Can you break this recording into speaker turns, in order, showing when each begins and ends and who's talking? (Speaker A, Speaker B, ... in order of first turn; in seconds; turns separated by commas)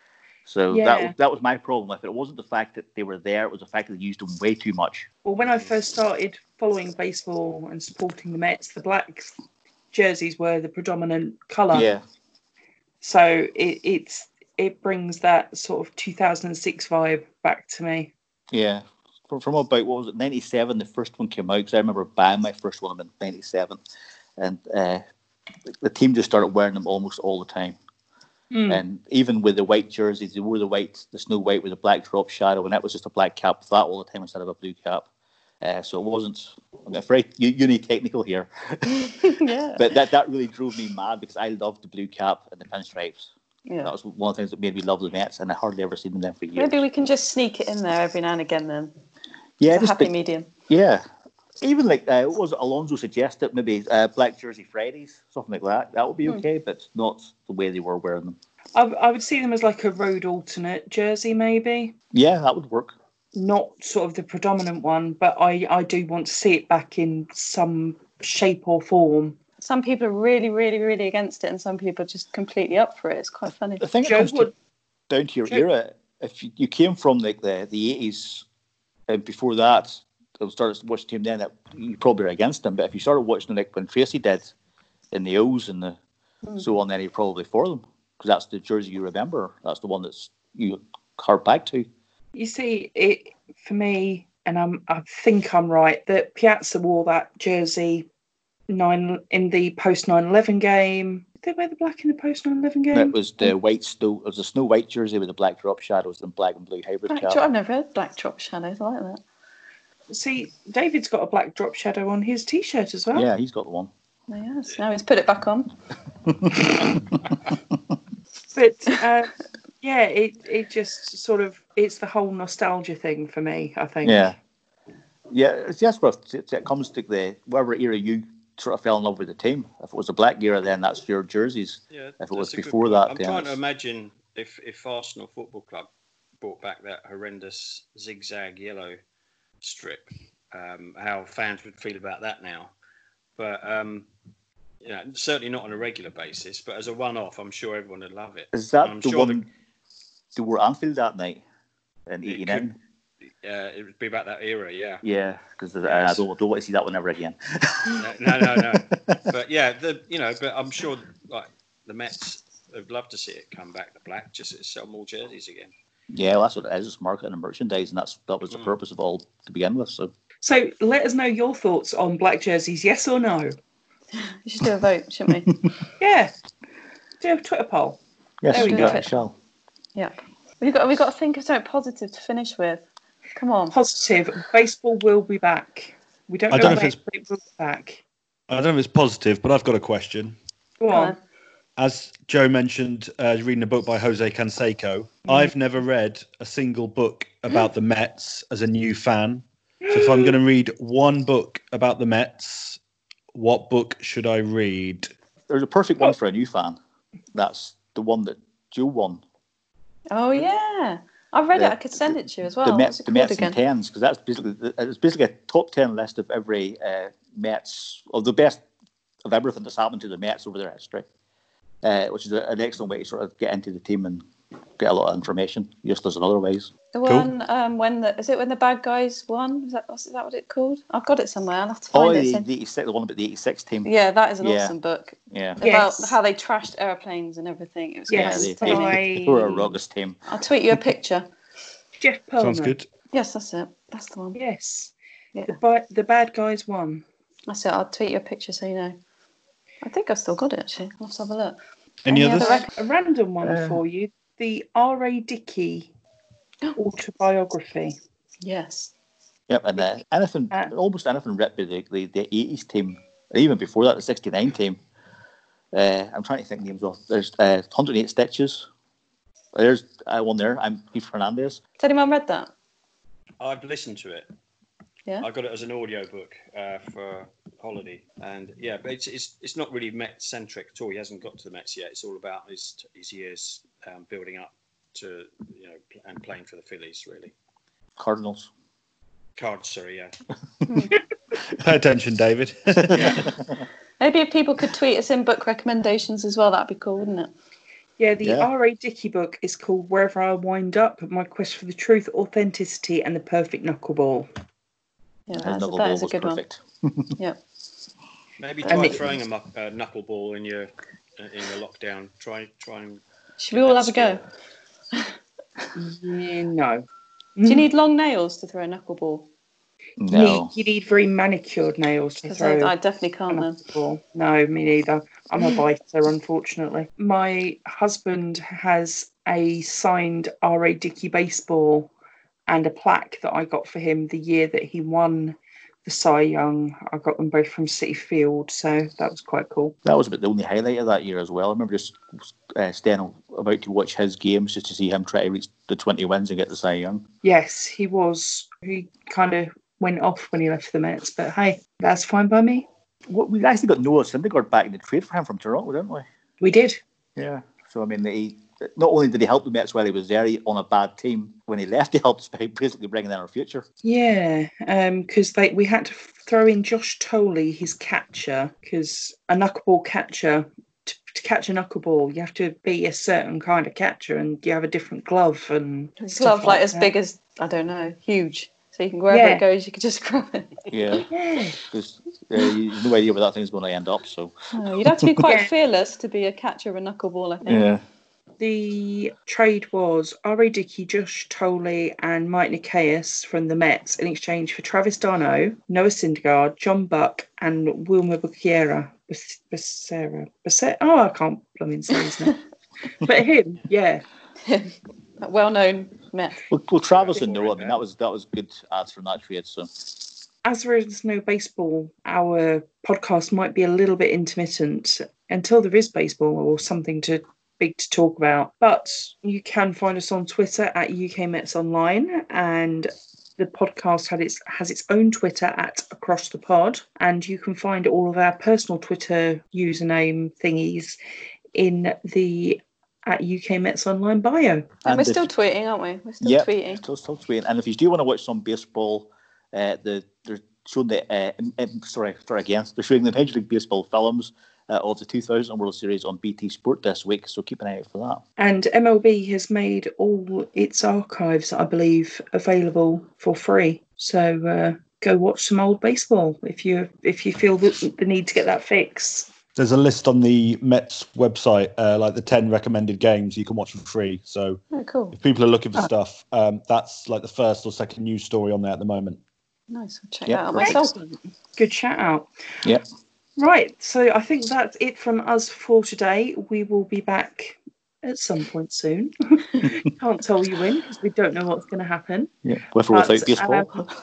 Speaker A: 0.5-5.1, Speaker B: 0.7-1.1, Speaker B: 5.2-9.3, Speaker C: 5.4-5.7, Speaker B: 9.9-11.9, Speaker A: 11.7-12.0, Speaker B: 13.0-18.1, Speaker A: 18.5-23.8, Speaker A: 24.4-25.0, Speaker A: 25.7-27.8, Speaker B: 28.5-28.8, Speaker A: 28.7-35.1, Speaker A: 35.6-39.2, Speaker D: 38.9-40.0, Speaker A: 39.8-43.3, Speaker D: 43.7-43.9, Speaker A: 43.8-46.8, Speaker D: 46.5-48.9, Speaker A: 49.6-50.1, Speaker D: 49.7-50.5, Speaker A: 50.7-51.0, Speaker A: 51.6-58.4, Speaker B: 58.8-62.0, Speaker A: 62.1-62.9, Speaker B: 63.3-69.4, Speaker D: 69.6-73.8, Speaker A: 73.8-74.5, Speaker B: 74.0-74.5, Speaker A: 75.1-78.5, Speaker A: 79.1-84.5, Speaker A: 85.1-86.0, Speaker A: 86.6-91.9, Speaker B: 92.3-98.1, Speaker B: 98.7-103.2, Speaker A: 102.9-107.4, Speaker D: 107.1-109.2, Speaker B: 110.1-113.3, Speaker A: 113.1-113.9, Speaker D: 114.3-115.7, Speaker A: 116.3-116.9, Speaker B: 118.5-124.3, Speaker A: 124.0-124.4, Speaker A: 125.3-133.6, Speaker C: 131.9-135.9, Speaker C: 136.4-139.0, Speaker C: 139.6-142.7, Speaker C: 143.4-144.1, Speaker C: 144.8-149.4, Speaker A: 148.5-149.5, Speaker A: 150.3-151.4, Speaker A: 152.1-152.8, Speaker C: 152.3-152.7, Speaker C: 153.3-155.0, Speaker A: 155.0-159.2, Speaker C: 155.8-156.2, Speaker C: 157.9-165.7, Speaker A: 166.1-170.1, Speaker B: 170.4-173.6, Speaker D: 174.2-175.6, Speaker B: 176.0-176.3, Speaker B: 177.2-178.0, Speaker A: 178.4-179.3, Speaker D: 178.5-179.1, Speaker B: 178.5-178.9, Speaker D: 179.9-183.8, Speaker B: 183.7-188.0, Speaker E: 186.5-187.0, Speaker E: 188.5-190.4, Speaker B: 190.8-191.2, Speaker D: 190.9-191.2, Speaker E: 191.8-202.8, Speaker B: 195.3-195.5, Speaker B: 199.8-200.4, Speaker E: 203.3-205.1, Speaker A: 205.5-206.8, Speaker A: 207.3-209.2, Speaker D: 210.1-213.6, Speaker A: 211.6-218.6, Speaker A: 219.2-221.1, Speaker A: 221.8-224.2, Speaker A: 224.8-226.7, Speaker D: 226.9-232.5, Speaker E: 227.1-227.3, Speaker A: 231.9-233.9, Speaker D: 233.8-239.0, Speaker A: 234.4-234.8, Speaker A: 235.3-235.6, Speaker B: 235.6-236.2, Speaker B: 238.1-239.7, Speaker A: 238.1-240.2, Speaker D: 240.3-241.3, Speaker B: 242.0-242.7, Speaker E: 242.4-242.9, Speaker D: 243.1-244.4, Speaker B: 244.3-244.9, Speaker B: 245.5-247.1, Speaker D: 247.5-249.0, Speaker D: 249.8-252.7, Speaker E: 252.1-252.5, Speaker B: 252.4-255.9, Speaker A: 253.4-253.8, Speaker B: 256.8-258.0, Speaker D: 258.4-258.9, Speaker A: 259.5-264.8, Speaker A: 265.7-268.7, Speaker A: 269.6-271.6, Speaker D: 271.8-272.5, Speaker C: 273.4-274.3, Speaker C: 275.2-287.3, Speaker A: 288.0-288.5, Speaker C: 289.4-290.1, Speaker D: 290.7-291.0, Speaker E: 291.5-293.2, Speaker A: 292.9-293.3, Speaker C: 293.0-293.2, Speaker D: 294.0-297.3, Speaker B: 298.0-304.3, Speaker A: 298.2-298.5, Speaker D: 305.3-306.4, Speaker A: 305.4-307.1, Speaker C: 308.4-313.0, Speaker D: 308.6-309.0, Speaker B: 308.7-309.0, Speaker D: 313.4-314.2, Speaker C: 313.6-314.2, Speaker B: 315.8-316.9, Speaker B: 317.4-317.7, Speaker D: 317.5-319.3, Speaker A: 320.0-320.5, Speaker B: 320.1-322.7, Speaker D: 322.3-323.6, Speaker B: 323.3-331.9, Speaker B: 332.5-339.8, Speaker A: 339.9-347.1, Speaker B: 347.2-352.7, Speaker A: 353.1-356.1, Speaker B: 356.4-356.8, Speaker A: 357.2-363.6, Speaker B: 363.8-376.9, Speaker D: 376.0-380.6, Speaker B: 379.1-379.4, Speaker A: 380.7-381.1, Speaker B: 381.1-381.6, Speaker A: 381.7-384.4, Speaker D: 384.5-387.7, Speaker B: 385.2-385.5, Speaker A: 387.5-387.8, Speaker B: 388.4-402.4, Speaker B: 403.0-404.0, Speaker D: 404.4-406.4, Speaker A: 406.5-409.7, Speaker C: 406.8-407.8, Speaker B: 410.4-431.0, Speaker B: 431.6-434.7, Speaker A: 434.9-435.3, Speaker D: 434.9-436.8, Speaker A: 436.2-448.2, Speaker B: 448.4-459.3, Speaker E: 459.6-464.6, Speaker D: 464.7-465.2, Speaker E: 465.1-469.2, Speaker D: 469.7-470.9, Speaker A: 470.3-470.8, Speaker B: 470.6-472.3, Speaker B: 473.4-482.3, Speaker A: 482.4-483.9, Speaker B: 482.9-483.7